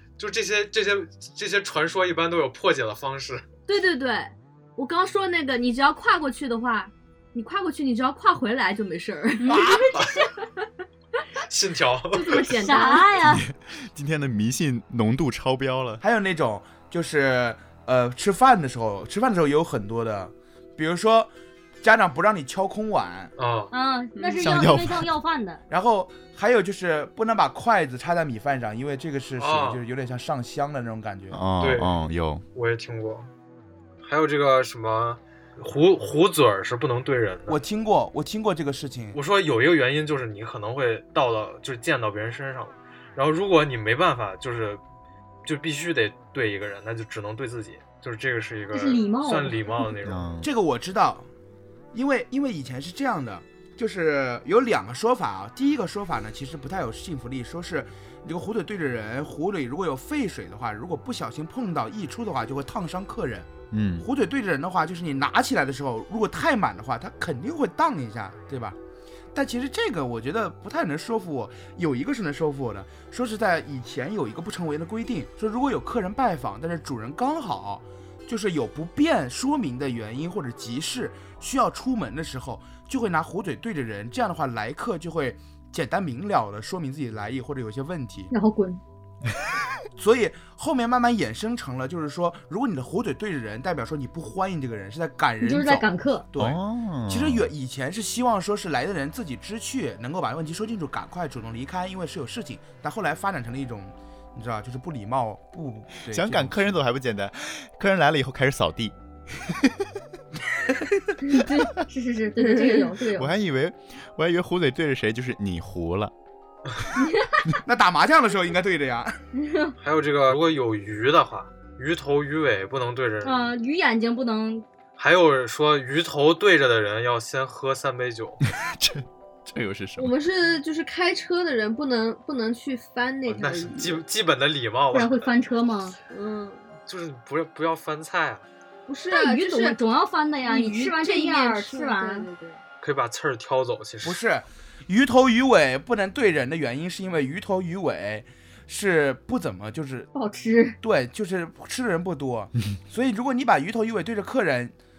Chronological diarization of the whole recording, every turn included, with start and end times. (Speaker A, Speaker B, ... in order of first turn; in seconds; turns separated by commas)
Speaker A: 0.2-3.5, Speaker B: 3.7-10.4, Speaker C: 9.4-10.0, Speaker D: 9.5-9.9, Speaker A: 11.4-12.4, Speaker B: 12.1-13.1, Speaker C: 12.5-13.4, Speaker E: 13.2-16.0, Speaker D: 16.0-21.3, Speaker D: 21.8-23.3, Speaker A: 23.4-23.7, Speaker C: 23.7-25.6, Speaker B: 24.1-24.5, Speaker E: 24.4-25.1, Speaker D: 25.7-31.4, Speaker A: 29.4-29.8, Speaker E: 31.3-32.4, Speaker A: 31.6-31.9, Speaker A: 32.5-33.3, Speaker A: 34.0-37.6, Speaker D: 37.5-39.2, Speaker A: 39.1-44.8, Speaker A: 45.4-50.2, Speaker C: 48.7-49.6, Speaker E: 50.0-50.5, Speaker D: 50.4-51.3, Speaker D: 51.9-63.5, Speaker E: 63.7-64.0, Speaker D: 64.0-68.8, Speaker D: 69.3-88.3, Speaker C: 88.3-88.8, Speaker D: 90.0-96.6, Speaker C: 95.4-96.2, Speaker E: 96.4-97.5, Speaker D: 97.1-106.8, Speaker E: 106.1-109.9, Speaker E: 111.1-111.7, Speaker C: 111.3-113.3, Speaker B: 112.4-113.0, Speaker E: 113.1-116.1, Speaker D: 117.6-119.2, Speaker C: 119.3-119.7, Speaker A: 119.8-123.4, Speaker C: 123.2-124.6, Speaker A: 125.0-128.4, Speaker E: 128.6-130.1, Speaker B: 130.0-134.0, Speaker A: 133.3-135.2, Speaker C: 134.9-135.9, Speaker B: 136.1-136.7, Speaker A: 136.9-138.5, Speaker B: 138.9-139.8, Speaker C: 139.1-142.3, Speaker B: 140.4-142.6, Speaker A: 142.8-144.2, Speaker D: 144.0-150.1, Speaker C: 150.1-150.8, Speaker D: 150.8-154.7